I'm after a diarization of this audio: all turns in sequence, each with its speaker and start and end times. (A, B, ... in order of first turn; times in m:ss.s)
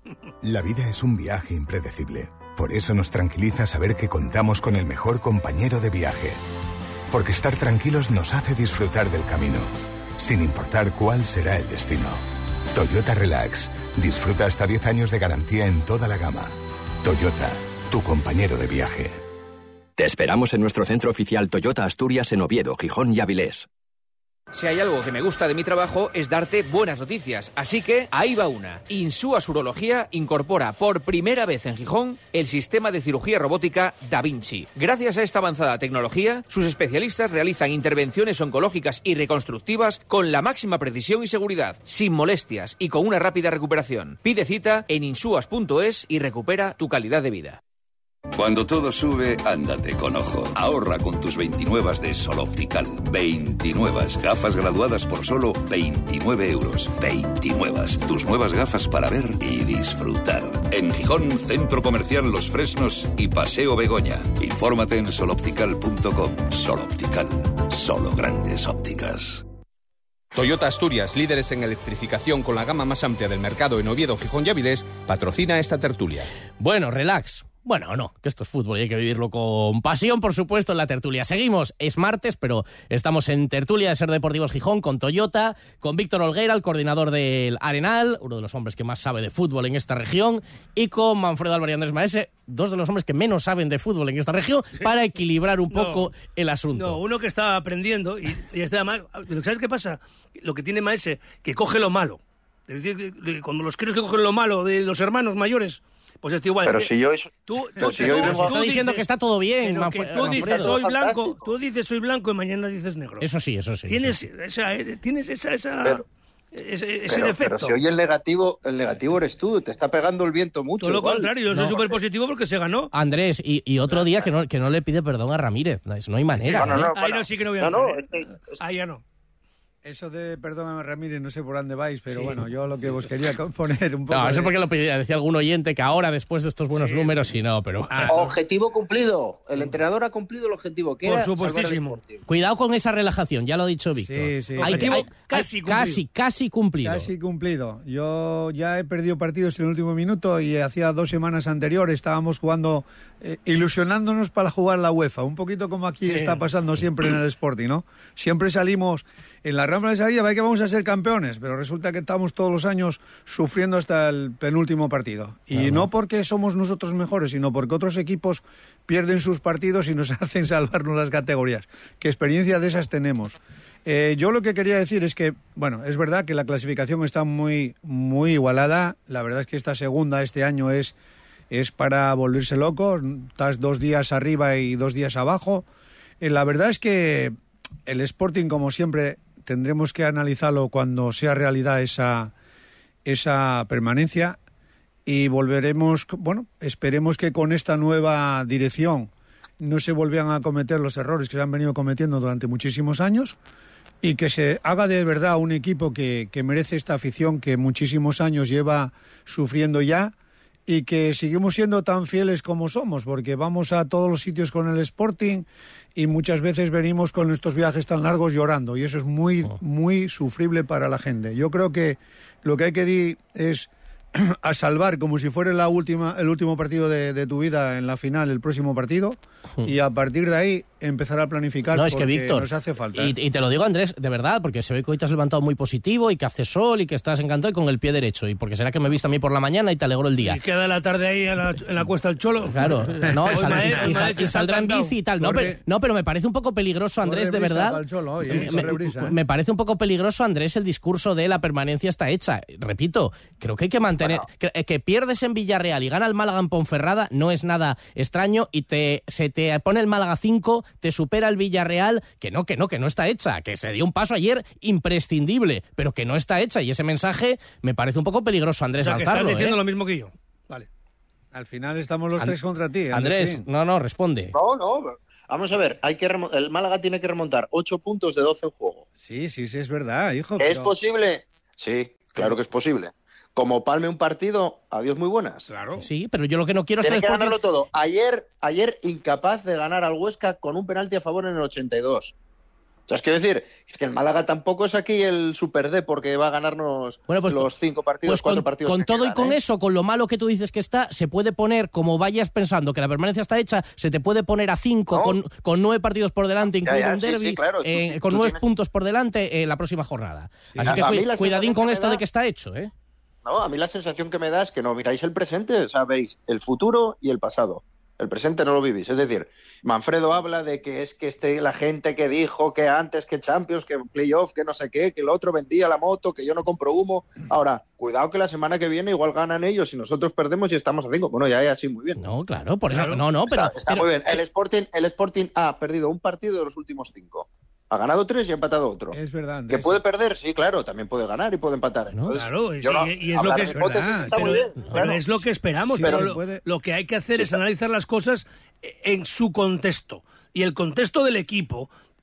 0:00.4-0:06.4 A
0:07.1-0:09.7 A
0:10.2-0:12.2 A
0:12.7-0:19.2 A
0:20.0-0:23.7 B
0:24.5-0:47.6 C
0:48.3-1:09.4 D
1:10.3-1:16.3 E
1:16.6-1:37.0 F
1:35.7-1:36.1 G
1:36.8-1:46.9 G
1:46.6-1:48.6 H
1:47.5-1:49.1 G
1:48.1-1:50.7 F
1:49.6-1:53.2 G
1:50.2-1:51.5 H
1:53.2-1:54.2 F
1:53.9-1:56.0 G
1:56.6-1:57.8 G
1:57.1-2:02.0 H
2:00.8-2:02.9 G
2:02.9-2:06.9 F
2:06.5-2:09.0 G
2:06.5-2:08.6 H
2:09.8-2:14.6 I
2:12.1-2:12.4 G
2:14.1-2:18.1 F
2:16.7-2:17.3 G
2:17.9-2:18.3 G
2:18.1-2:22.2 H
2:21.0-2:22.0 G
2:22.3-2:27.1 F
2:24.0-2:25.0 I
2:24.6-2:26.0 G
2:26.8-3:01.0 I
2:36.1-2:36.4 G
2:45.5-2:45.9 F
3:01.5-3:05.7 I
3:06.2-3:07.4 I
3:07.9-3:12.3 I
3:13.0-3:14.4 I
3:15.1-3:23.4 I
3:24.0-3:30.1 I
3:30.7-3:53.2 I
3:51.7-4:00.4 F
4:00.2-4:05.0 G
4:02.5-4:29.6 F
4:03.1-4:04.0 I
4:05.2-4:05.6 I
4:07.0-4:09.2 I
4:28.8-4:30.7 G
4:31.3-4:33.4 I
4:32.9-4:34.4 F
4:34.3-4:38.8 H
4:39.0-4:40.7 I
4:40.4-4:45.5 H
4:45.5-4:45.8 G
4:45.8-4:47.4 F
4:46.8-4:52.1 H
4:52.9-4:59.4 H
4:57.1-4:57.5 F
4:58.1-5:12.7 F
5:06.4-5:08.4 H
5:10.5-5:11.0 I
5:10.6-5:12.0 H
5:13.2-5:32.0 H
5:32.0-5:33.9 F
5:32.7-5:33.0 G
5:33.3-5:39.0 H
5:38.9-5:39.8 I
5:39.5-5:45.0 H
5:42.1-5:51.7 G
5:43.6-5:44.4 I
5:45.7-5:46.4 I
5:45.8-5:46.1 H